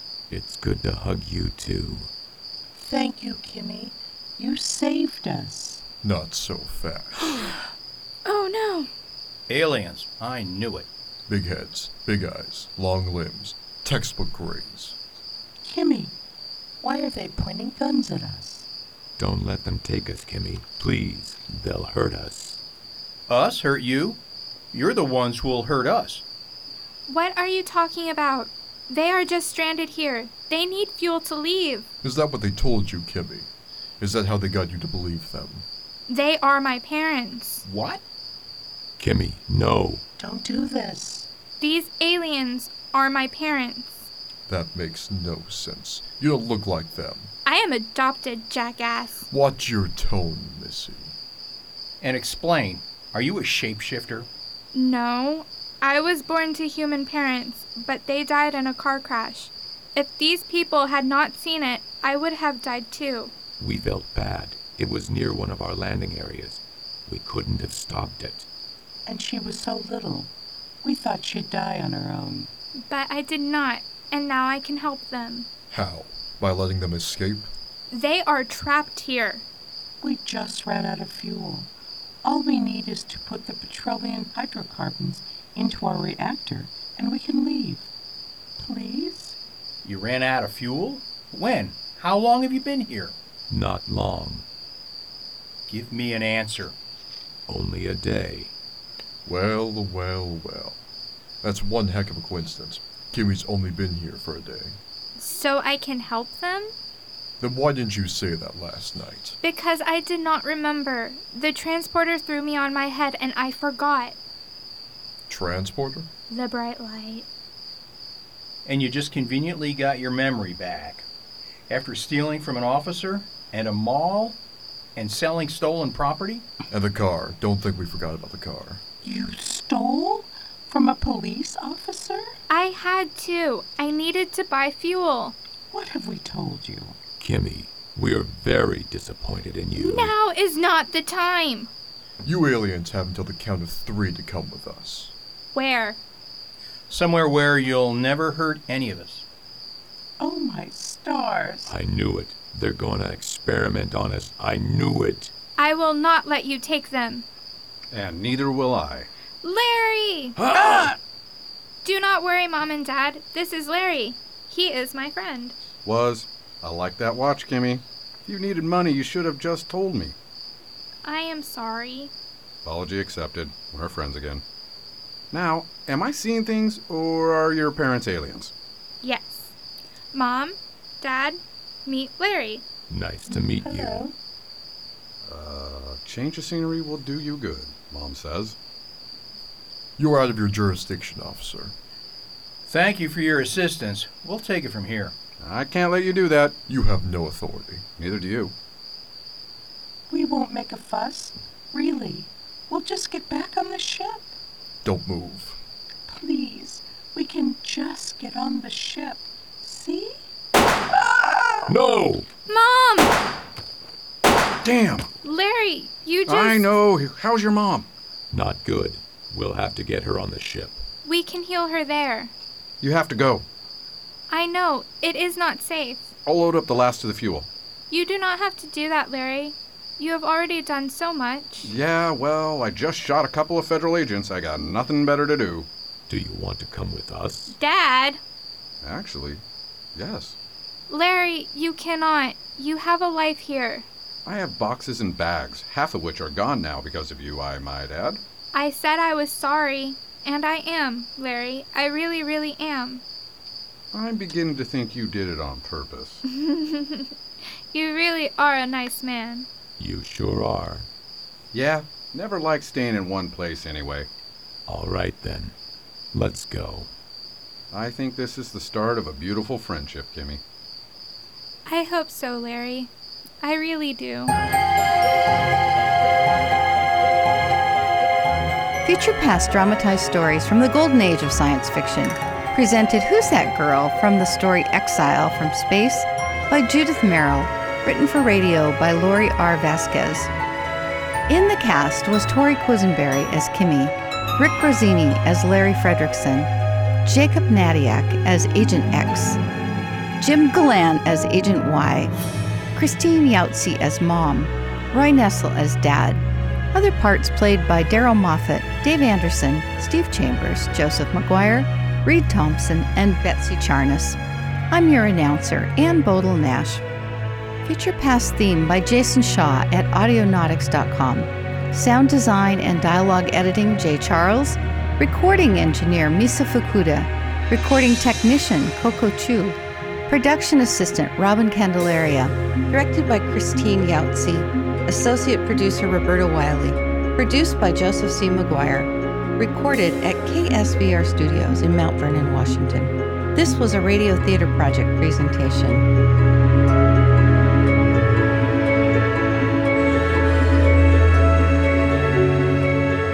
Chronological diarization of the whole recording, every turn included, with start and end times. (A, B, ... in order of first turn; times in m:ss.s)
0:00.3-0:02.1 A
0:02.7-0:05.8 B
0:06.0-0:07.4 C
0:08.2-0:08.9 D
0:09.5-0:10.9 E
0:11.3-0:15.0 C
0:15.6-0:16.2 B
0:16.8-0:18.7 B
0:19.2-0:22.6 A
0:23.3-0:24.2 E
0:24.7-0:26.2 E
0:27.1-0:31.9 D
0:32.0-0:33.5 C
0:34.0-0:35.7 C
0:36.1-0:37.6 D
0:37.6-0:38.0 E
0:39.0-0:40.0 A
0:40.2-0:41.3 B
0:41.6-0:44.1 D
0:44.5-0:47.3 C
0:47.4-0:49.3 D
0:49.3-0:51.2 C
0:52.0-0:54.3 E
0:54.7-1:03.4 D
1:03.6-1:08.5 A
1:09.1-1:10.3 B
1:10.8-1:12.5 B
1:12.9-1:15.5 D
1:15.7-1:17.5 C
1:17.9-1:19.4 D
1:20.0-1:21.7 B
1:22.2-1:27.9 B
1:28.6-1:29.4 B
1:29.8-1:33.2 E
1:33.5-1:34.4 A
1:35.7-1:36.8 E
1:37.5-1:38.5 A
1:39.3-1:40.8 C
1:41.4-1:44.8 C
1:45.2-1:46.7 D
1:47.4-1:49.4 C
1:49.4-1:54.2 D
1:55.3-1:56.1 C
1:56.3-1:57.3 D
1:58.7-2:01.1 E
2:01.7-2:04.4 E
2:05.0-2:06.5 E
2:06.7-2:08.8 C
2:09.0-2:12.3 B
2:12.5-2:15.4 D
2:15.7-2:17.0 B
2:17.2-2:20.2 A
2:19.8-2:21.7 D
2:22.2-2:25.1 C
2:25.5-2:26.0 D
2:26.9-2:29.2 E
2:30.2-2:31.7 B
2:31.7-2:35.3 A
2:35.6-2:37.3 D
2:37.9-2:39.1 F
2:39.4-2:40.4 D
2:40.4-2:40.9 F
2:40.6-2:40.9 A
2:41.8-2:45.6 D
2:45.8-2:50.2 F
2:51.0-2:52.1 D
2:52.6-2:54.4 F
2:55.3-2:58.5 F
2:59.0-2:59.5 D
3:00.1-3:02.7 D
3:02.9-3:04.1 A
3:03.3-3:04.1 B
3:05.2-3:08.6 F
3:10.0-3:11.7 C
3:12.7-3:15.2 E
3:15.4-3:16.6 F
3:16.7-3:17.8 C
3:18.0-3:18.5 F
3:20.1-3:24.3 B
3:24.8-3:25.6 C
3:26.1-3:30.2 B
3:31.1-3:31.8 B
3:31.7-3:32.3 A
3:32.5-3:33.2 D
3:34.6-3:35.1 F
3:35.2-3:36.7 D
3:36.3-3:37.9 F
3:38.3-3:40.8 A
3:41.0-3:42.3 D
3:42.8-3:43.4 F
3:44.3-3:46.1 D
3:46.2-3:47.5 F
3:47.9-3:51.7 D
3:51.6-3:55.7 F
3:56.1-3:57.6 A
3:57.5-3:58.2 D
3:58.8-3:59.4 F
4:00.0-4:00.4 F
4:00.9-4:03.9 D
4:04.2-4:08.2 F
4:08.5-4:13.0 D
4:13.9-4:16.2 F
4:16.3-4:17.1 D
4:17.7-4:19.5 D
4:19.8-4:20.9 A
4:21.5-4:24.1 F
4:24.7-4:25.6 A
4:26.1-4:26.9 A
4:27.7-4:30.4 F
4:31.7-4:34.4 D
4:38.8-4:50.3 G
4:51.3-4:56.5 G
4:57.0-4:59.4 G
5:00.2-5:02.1 G
5:02.8-5:14.2 G
5:14.7-5:16.8 G
5:17.6-5:29.6 G
5:30.1-5:45.9 G